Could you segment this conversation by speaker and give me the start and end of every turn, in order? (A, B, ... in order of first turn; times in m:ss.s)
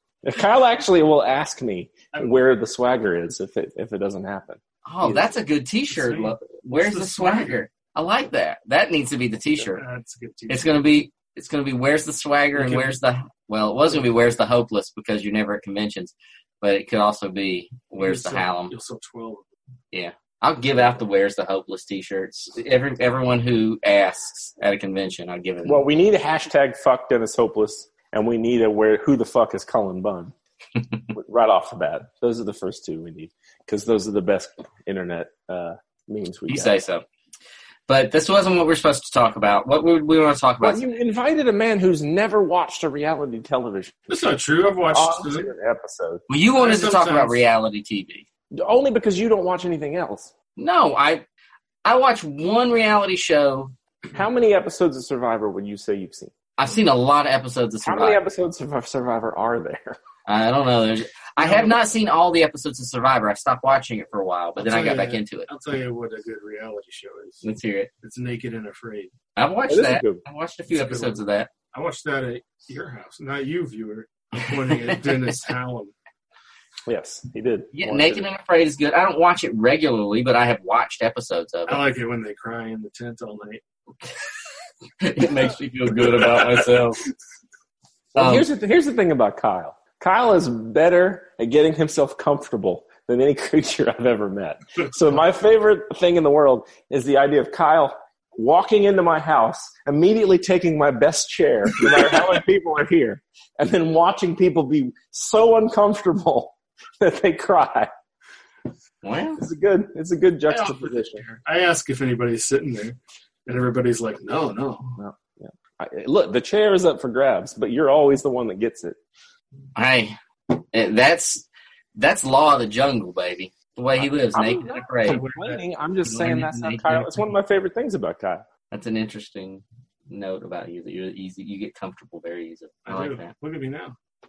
0:00.2-0:05.3 A
0:04.9-0:09.8 B
0:05.9-0:07.6 C
0:09.8-0:10.8 C
0:10.5-0:18.7 B
0:12.5-0:13.0 C
0:18.0-0:19.5 C
0:19.9-0:25.8 B
0:25.6-0:30.3 A
0:31.1-0:36.8 A
0:36.5-0:37.0 B
0:37.9-0:40.8 B
0:40.6-0:44.1 A
0:44.1-0:45.5 C
0:44.9-0:46.2 A
0:46.3-0:48.3 B
0:46.6-0:47.4 C
0:48.5-0:50.3 A
0:50.6-0:51.2 B
0:51.8-0:53.7 B
0:54.1-0:56.3 A
0:56.6-0:58.2 B
0:57.8-1:00.0 A
1:00.3-1:05.5 B
1:01.4-1:01.8 C
1:04.6-1:07.4 C
1:07.4-1:07.9 B
1:08.0-1:09.1 C
1:09.4-1:11.5 B
1:09.7-1:10.2 A
1:10.7-1:15.9 C
1:16.9-1:18.3 A
1:17.7-1:21.8 B
1:21.7-1:23.6 C
1:25.0-1:27.0 B
1:26.1-1:26.7 C
1:28.2-1:47.9 A
1:28.2-1:28.5 B
1:49.0-1:49.4 B
1:49.4-1:51.2 A
1:50.5-1:55.0 C
1:55.0-1:59.0 A
1:59.8-2:01.5 B
2:02.0-2:05.2 B
2:04.0-2:08.4 A
2:05.0-2:05.6 C
2:06.0-2:07.3 B
2:08.7-2:13.3 B
2:12.9-2:14.0 C